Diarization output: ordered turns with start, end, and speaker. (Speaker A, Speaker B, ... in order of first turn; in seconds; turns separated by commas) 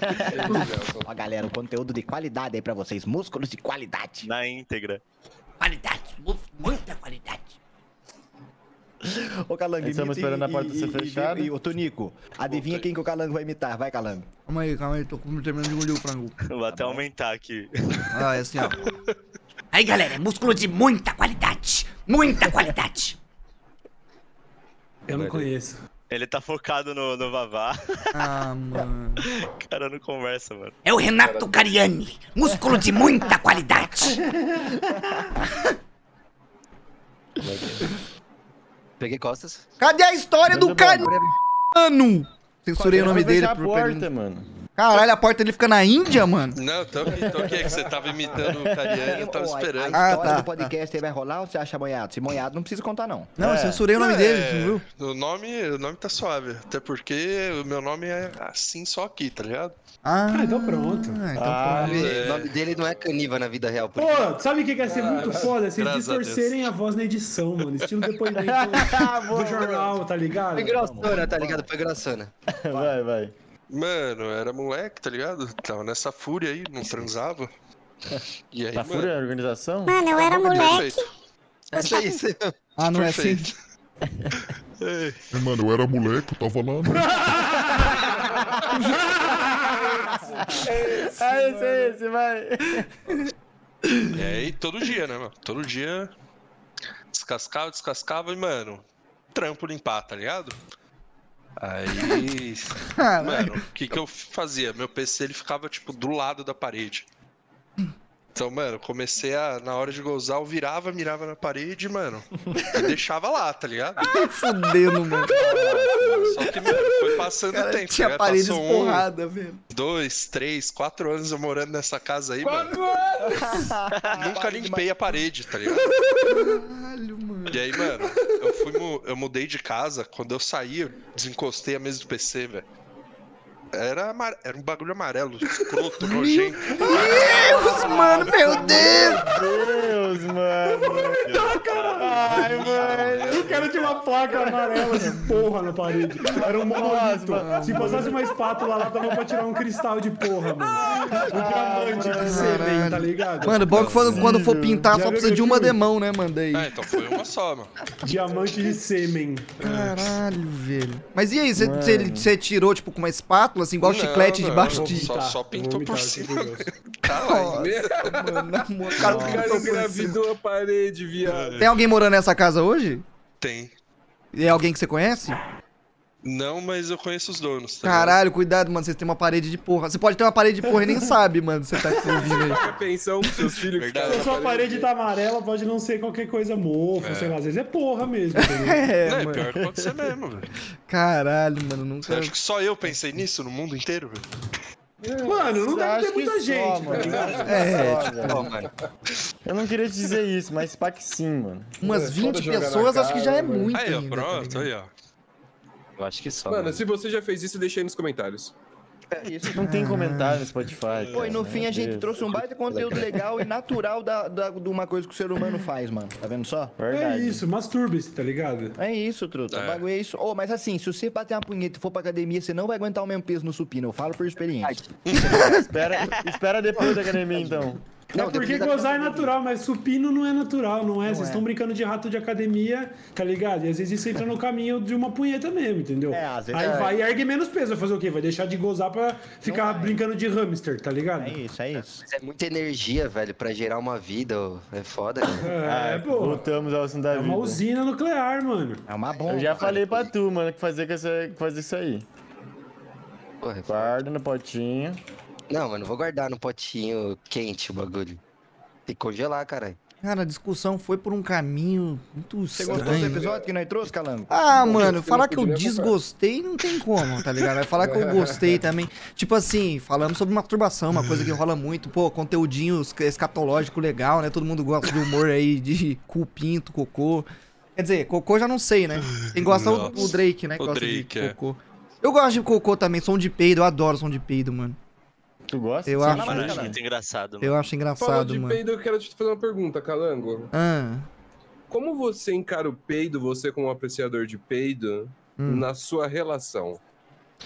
Speaker A: 0.1-4.3, Speaker B: 0.2-1.1, Speaker C: 4.2-5.0, Speaker D: 5.6-7.5, Speaker A: 9.0-14.3, Speaker E: 9.8-11.5, Speaker F: 12.5-12.8, Speaker D: 14.5-16.4, Speaker C: 16.4-18.3, Speaker A: 16.7-17.1, Speaker D: 18.1-18.8, Speaker D: 19.7-23.2, Speaker G: 25.1-25.8, Speaker H: 25.1-25.4, Speaker C: 26.1-28.3, Speaker D: 28.1-29.2, Speaker C: 29.2-30.8, Speaker D: 30.8-34.2, Speaker B: 31.2-31.6, Speaker G: 34.1-35.0, Speaker E: 37.4-37.8, Speaker H: 39.0-39.7, Speaker D: 39.8-41.1, Speaker E: 40.5-41.1, Speaker H: 41.0-41.3, Speaker D: 41.7-44.1, Speaker E: 42.8-44.5, Speaker D: 44.8-46.6, Speaker F: 46.5-50.4, Speaker E: 47.2-47.7, Speaker E: 48.8-49.0, Speaker A: 48.9-53.3, Speaker D: 49.9-50.7, Speaker D: 53.4-54.8, Speaker E: 53.4-53.9, Speaker F: 53.9-59.7, Speaker D: 60.0-62.2, Speaker G: 60.3-61.2, Speaker E: 61.3-62.2, Speaker H: 61.7-64.4, Speaker F: 61.8-62.5, Speaker G: 64.0-70.9, Speaker B: 64.8-65.6, Speaker F: 65.7-66.6, Speaker F: 67.8-68.0, Speaker E: 68.4-70.0, Speaker H: 70.5-72.3, Speaker A: 70.7-71.7, Speaker E: 72.6-73.3, Speaker F: 73.7-77.5, Speaker F: 78.5-79.1, Speaker E: 78.7-80.1, Speaker F: 80.0-81.1, Speaker H: 81.7-82.6, Speaker D: 82.8-83.5, Speaker F: 82.8-83.5, Speaker F: 84.3-85.3, Speaker I: 85.3-87.4, Speaker G: 87.2-88.1, Speaker G: 88.9-89.9, Speaker B: 90.0-91.9, Speaker E: 90.5-93.2, Speaker D: 93.8-94.2, Speaker F: 94.1-96.1, Speaker F: 97.1-98.8, Speaker F: 99.3-100.5, Speaker F: 101.6-107.0, Speaker D: 102.9-103.6, Speaker F: 108.3-114.1, Speaker D: 114.1-115.3, Speaker E: 115.4-116.2, Speaker A: 115.4-116.1, Speaker B: 115.5-116.2, Speaker F: 116.2-119.0, Speaker D: 117.5-119.6, Speaker F: 119.7-122.8, Speaker B: 122.4-123.6, Speaker A: 123.2-125.0, Speaker F: 124.1-125.9, Speaker D: 126.3-127.8, Speaker F: 127.5-132.6, Speaker F: 133.7-137.3, Speaker D: 136.0-139.3, Speaker G: 136.7-139.4, Speaker E: 138.2-141.4, Speaker G: 140.7-153.9, Speaker E: 141.9-145.4, Speaker F: 142.4-143.6, Speaker E: 146.3-148.2, Speaker D: 147.4-148.1, Speaker E: 150.8-153.0, Speaker D: 152.2-156.7, Speaker E: 153.7-154.9, Speaker F: 153.8-154.1, Speaker G: 154.9-155.8, Speaker F: 156.5-157.7, Speaker G: 158.0-159.8, Speaker D: 159.6-165.1, Speaker E: 161.6-162.3, Speaker F: 163.8-168.0, Speaker G: 164.6-166.7, Speaker D: 167.1-170.2, Speaker B: 167.5-171.7, Speaker E: 169.0-169.6, Speaker F: 171.2-171.7, Speaker D: 171.6-173.0, Speaker F: 173.4-173.7, Speaker D: 174.3-175.4, Speaker F: 176.2-178.2, Speaker D: 177.8-182.6, Speaker B: 182.1-184.9, Speaker F: 183.8-184.3, Speaker G: 184.0-188.9, Speaker F: 187.0-187.4, Speaker D: 188.4-189.6, Speaker F: 189.0-190.5, Speaker D: 190.9-192.3, Speaker F: 192.1-194.2, Speaker B: 195.0-195.6, Speaker G: 195.2-197.8, Speaker E: 195.6-198.5, Speaker B: 196.9-198.7, Speaker D: 197.4-198.2, Speaker H: 198.2-198.7, Speaker E: 199.4-201.8, Speaker D: 201.8-204.7, Speaker B: 201.8-203.7, Speaker F: 203.7-204.9, Speaker H: 206.0-206.8, Speaker B: 206.4-208.5, Speaker H: 209.1-209.5, Speaker A: 209.2-209.5, Speaker E: 209.5-212.3, Speaker D: 209.6-210.5, Speaker A: 211.1-216.7, Speaker H: 212.7-213.2, Speaker E: 216.8-217.4, Speaker G: 216.9-218.8, Speaker A: 218.8-225.7, Speaker F: 219.5-219.8, Speaker H: 224.6-225.6, Speaker E: 225.4-227.8, Speaker A: 227.3-227.7, Speaker G: 228.1-241.3, Speaker H: 228.1-229.4, Speaker A: 231.1-231.4, Speaker A: 236.1-237.0, Speaker A: 239.4-240.0, Speaker A: 241.2-242.0, Speaker H: 241.8-245.5, Speaker G: 245.4-246.5, Speaker E: 245.6-247.6, Speaker G: 247.1-248.8, Speaker A: 248.9-250.1, Speaker E: 249.2-252.1, Speaker H: 253.4-254.0, Speaker E: 253.7-255.0, Speaker H: 255.5-258.2, Speaker H: 258.9-259.8, Speaker D: 260.0-263.2, Speaker A: 262.5-264.9, Speaker B: 262.7-263.5, Speaker D: 264.3-284.8, Speaker B: 264.5-265.9, Speaker B: 267.8-268.6, Speaker F: 279.1-281.3, Speaker E: 285.5-286.8, Speaker D: 285.9-286.6, Speaker A: 286.0-286.8, Speaker C: 286.1-287.6, Speaker D: 287.4-288.6, Speaker B: 288.0-290.5, Speaker D: 290.5-291.1, Speaker B: 291.7-296.8, Speaker D: 295.4-295.7